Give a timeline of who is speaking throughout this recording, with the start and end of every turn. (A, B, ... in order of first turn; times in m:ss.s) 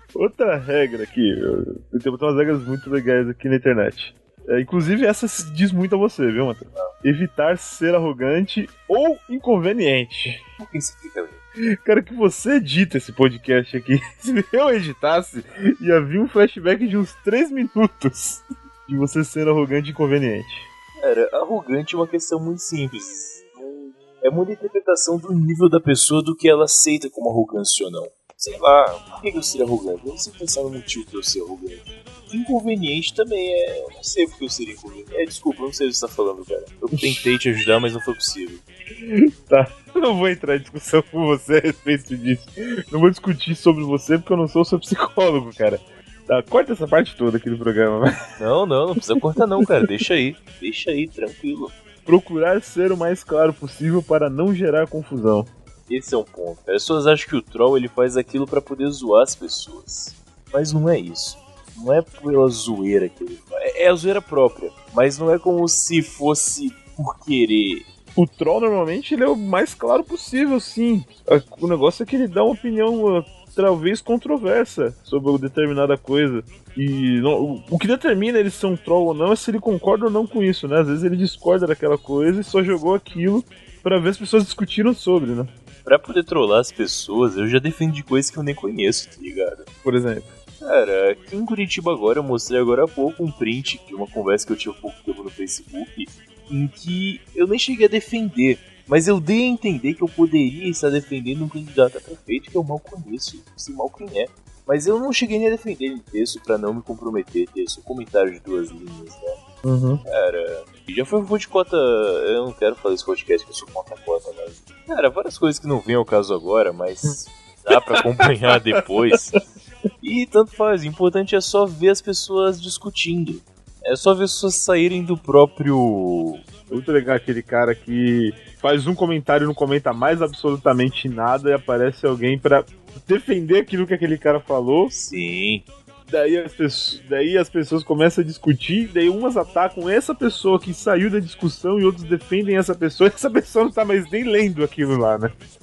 0:00.1-0:10.4 A
0:10.6-0:11.4 B
0:11.8-0:20.7 A
0:21.0-0:38.6 B
0:37.0-0:37.3 A
0:39.1-0:48.1 A
0:48.4-0:51.7 B
0:52.1-0:55.5 A
0:55.9-1:07.9 B
1:08.2-1:25.5 A
1:25.8-1:29.7 B
1:29.8-1:30.3 A
1:30.6-1:49.4 B
1:49.6-1:50.0 A
1:50.1-1:59.4 B
2:00.0-2:06.4 B
2:06.7-2:14.9 A
2:14.9-2:15.7 B
2:16.1-2:25.3 A